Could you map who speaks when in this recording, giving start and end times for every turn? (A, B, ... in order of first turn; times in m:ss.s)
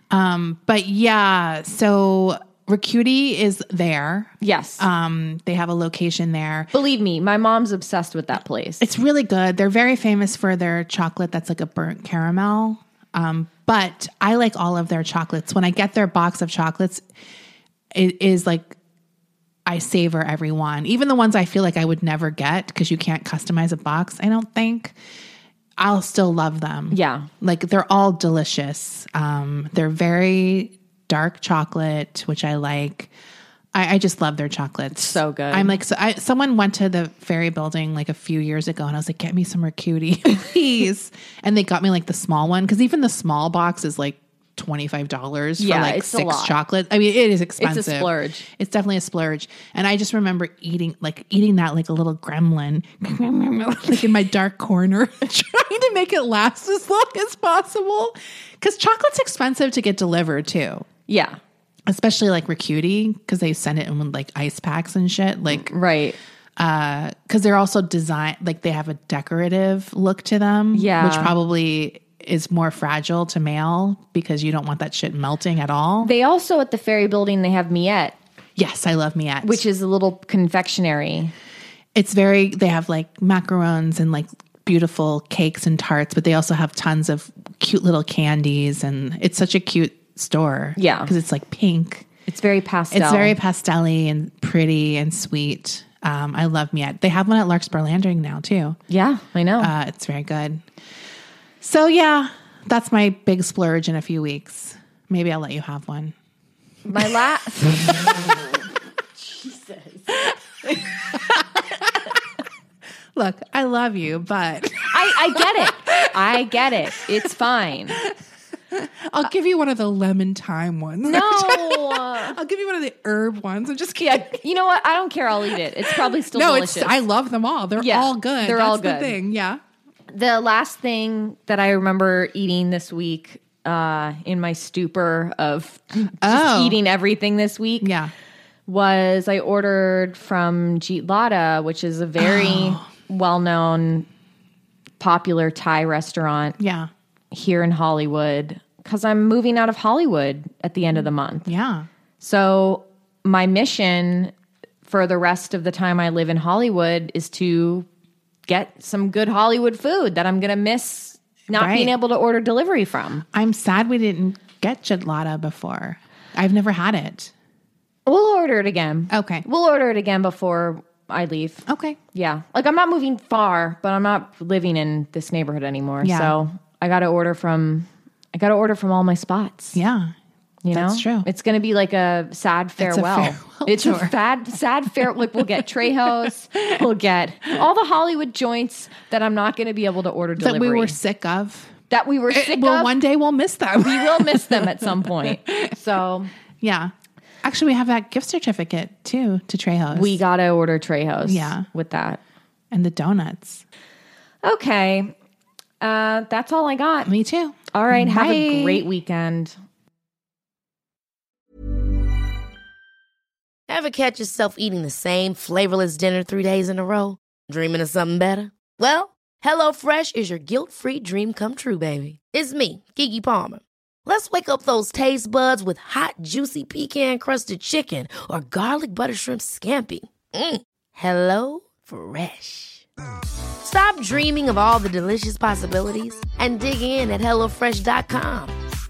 0:00.1-0:06.7 A
0:04.4-0:04.8 B
0:06.7-0:08.8 B
0:08.8-0:17.0 A
0:18.0-0:18.8 A
0:19.7-0:25.0 A
0:25.8-0:33.1 A
0:26.9-0:27.3 B
0:33.7-1:00.9 A
0:34.9-0:35.8 B
0:45.6-0:46.5 B
0:47.6-0:48.4 B
1:01.1-1:01.4 B
1:01.9-1:05.7 A
1:05.6-1:06.2 B
1:06.6-1:16.1 A
1:10.7-1:11.3 B
1:16.0-1:18.2 B
1:18.6-1:19.6 A
1:19.4-1:21.3 B
1:22.0-1:32.1 A
1:30.8-1:31.1 B
1:32.3-1:33.4 B
1:32.9-1:38.8 A
1:38.9-1:39.7 B
1:39.6-1:40.6 A
1:41.6-1:46.2 A
1:46.9-1:48.5 B
1:49.2-1:51.4 B
1:53.2-1:56.3 A
1:54.8-1:58.0 B
1:58.7-2:04.4 A
2:01.0-2:02.4 B
2:04.0-2:07.0 B
2:05.5-2:09.6 A
2:07.8-2:09.2 B
2:10.1-2:17.9 B
2:16.2-2:16.8 A
2:17.8-2:18.1 A
2:18.7-2:24.1 B
2:22.2-2:22.8 A
2:25.0-2:26.6 B
2:26.6-2:26.9 A
2:27.3-2:31.5 B
2:31.5-2:31.9 A
2:32.2-2:34.3 B
2:34.9-2:37.9 B
2:38.5-2:43.2 B
2:41.5-2:41.9 A
2:43.3-2:47.3 A
2:48.1-2:59.8 B
2:49.1-2:49.4 A
2:51.7-2:52.0 A
2:56.0-2:56.4 A
2:59.8-3:00.1 A
3:00.6-3:11.0 B
3:00.7-3:01.3 A
3:02.8-3:04.2 A
3:10.4-3:11.7 A
3:11.9-3:12.9 B
3:12.3-3:15.7 A
3:13.8-3:16.3 B
3:16.6-3:16.9 A
3:17.4-3:20.2 A
3:19.9-3:22.2 B
3:21.2-3:21.7 A
3:22.7-3:23.6 A
3:24.4-3:25.1 B
3:25.8-3:27.1 B
3:27.0-3:28.8 A
3:27.7-3:29.5 B
3:33.7-3:52.8 C
3:53.6-3:58.6 C